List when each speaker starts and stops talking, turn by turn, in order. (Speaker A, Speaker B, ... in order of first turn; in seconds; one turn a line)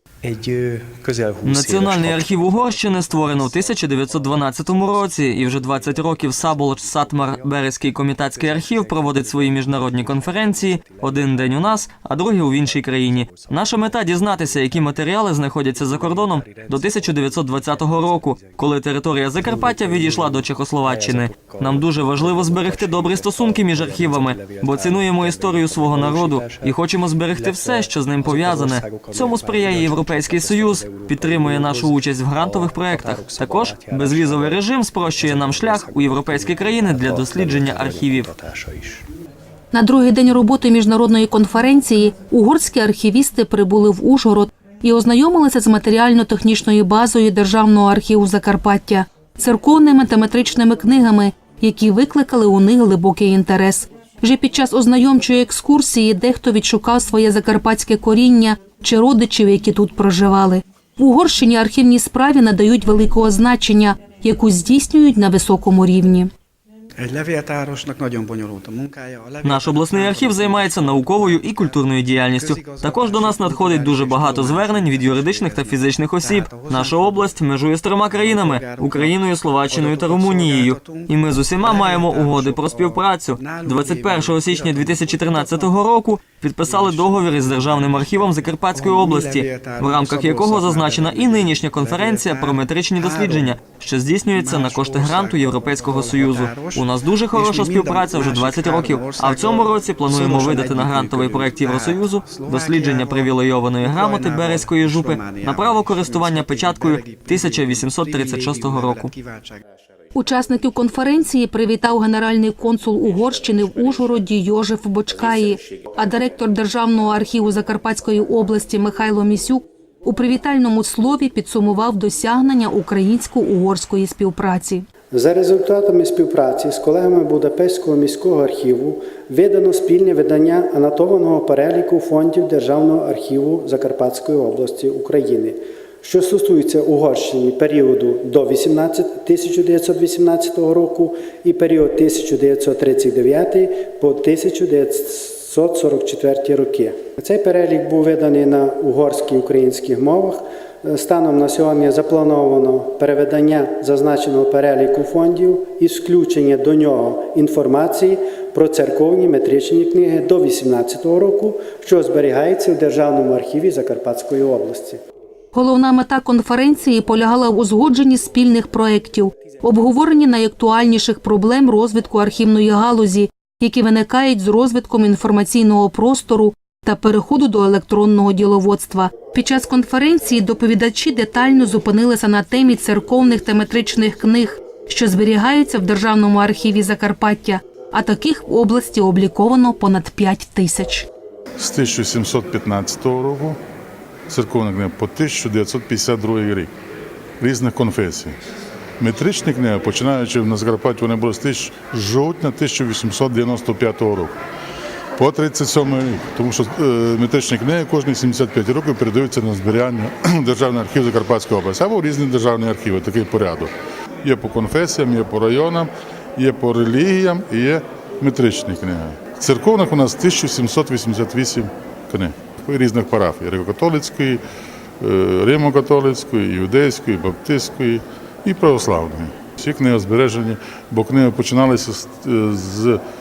Speaker A: 0.3-1.7
Speaker B: 1.4-38.3
Speaker A: 10.7-11.0
Speaker A: 16.5-16.8
Speaker A: 24.4-24.9
Speaker A: 26.0-26.6
Speaker A: 28.4-29.9
Speaker A: 30.8-31.2
Speaker A: 33.1-34.4
Speaker A: 35.5-35.9
Speaker A: 36.5-39.0
Speaker C: 39.7-66.3
Speaker A: 67.0-69.4
Speaker B: 69.4-109.1
Speaker A: 83.6-84.1
Speaker A: 89.2-91.3
Speaker A: 92.0-92.4
Speaker A: 97.6-98.5
Speaker A: 100.3-101.3
Speaker A: 102.4-103.2
Speaker A: 105.2-105.8
Speaker C: 110.1-124.8
Speaker D: 125.1-165.0
Speaker C: 165.5-191.1
Speaker E: 191.6-193.6
Speaker E: 194.3-196.7
Speaker E: 197.4-198.3
Speaker E: 199.0-204.3
Speaker E: 205.2-213.7
Speaker E: 214.2-224.4
Speaker E: 225.0-233.0